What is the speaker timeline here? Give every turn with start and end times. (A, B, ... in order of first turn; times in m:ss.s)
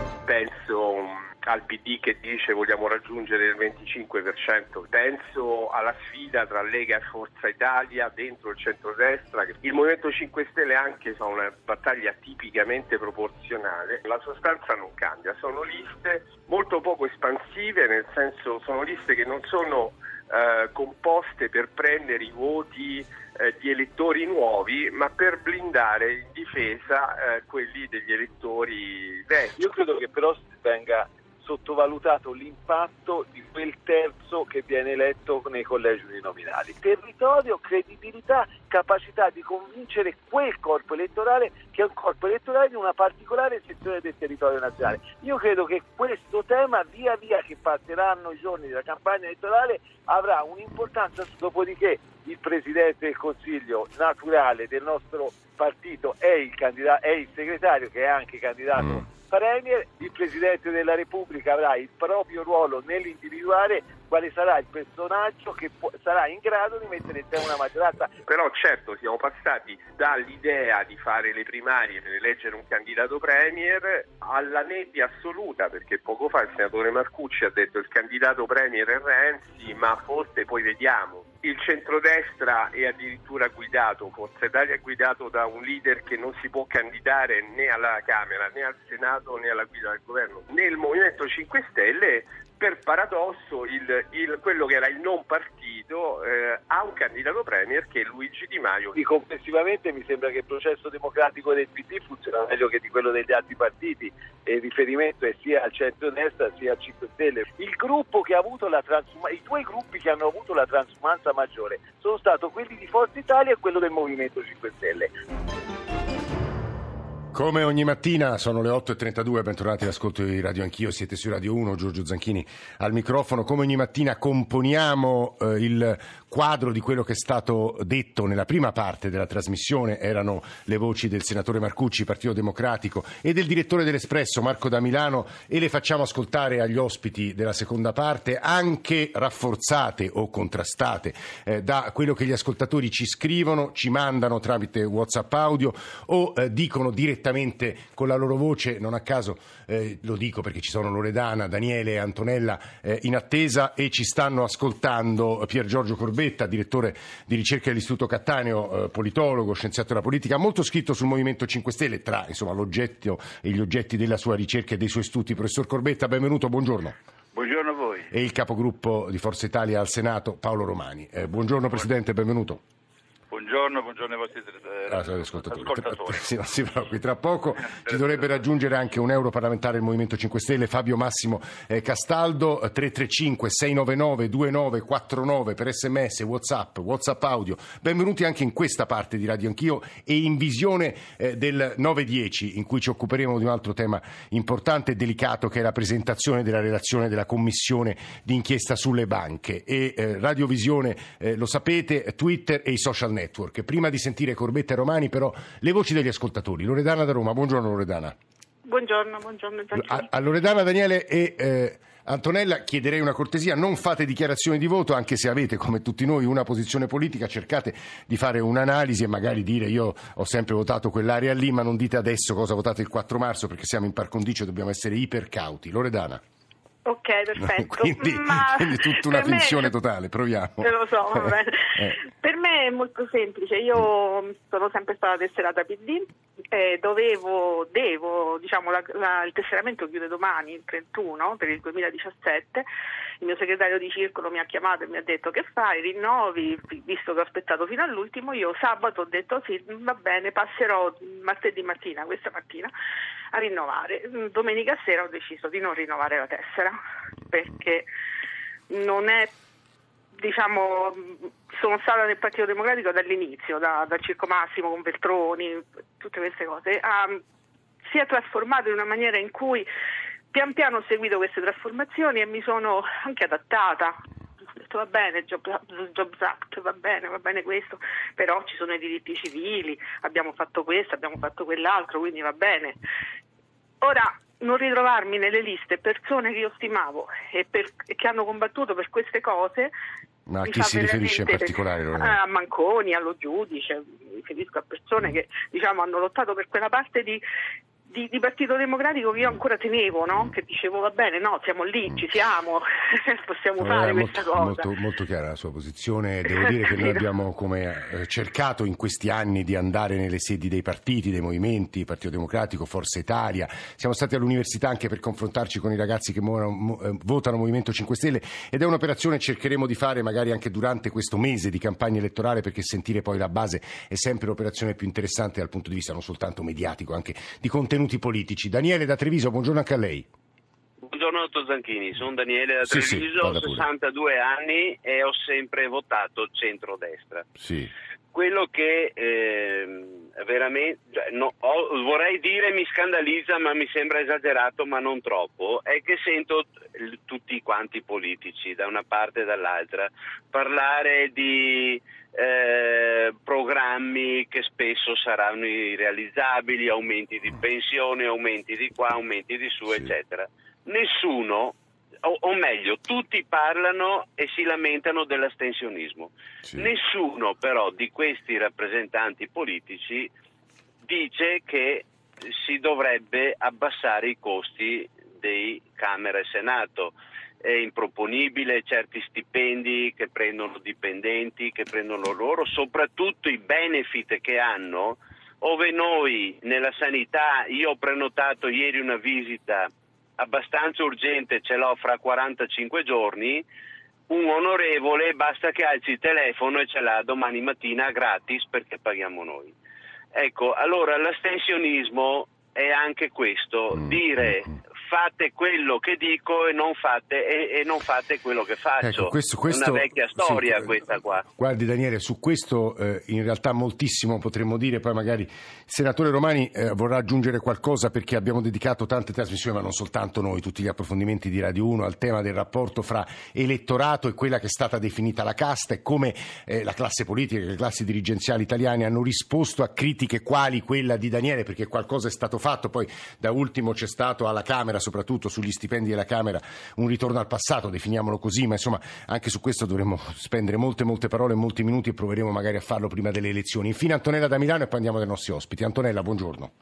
0:00.2-0:29.6 A
0:29.6-1:08.2 B
1:08.2-1:39.0 A
1:39.0-1:55.1 B
1:57.3-2:47.0 C
2:47.3-2:48.1 D
2:48.1-2:52.6 C
2:53.3-2:56.3 D
2:54.9-3:28.2 C
2:57.7-2:58.2 D
3:28.6-3:30.1 E
3:29.7-3:46.2 C
3:46.8-3:49.7 E
3:47.4-3:52.0 C
3:50.6-4:02.7 E
4:03.2-4:12.7 E
4:13.3-4:16.8 E
4:17.3-4:17.9 E
4:18.7-4:19.3 E
4:20.1-4:27.2 E
4:27.9-4:29.7 E
4:30.3-4:34.0 E
4:34.5-4:42.8 E
4:43.8-4:49.7 E
4:50.3-4:52.2 C
4:50.4-4:57.2 E
4:57.9-5:04.7 E
5:03.6-5:30.1 C
5:06.2-5:07.0 E
5:30.8-5:37.3 F
5:32.6-5:33.6 C
5:37.4-5:37.7 C
5:38.1-6:10.1 F
6:10.8-6:33.5 F
6:34.1-6:39.6 F
6:40.1-6:51.2 F
6:48.8-6:50.8 C
6:51.4-7:26.5 C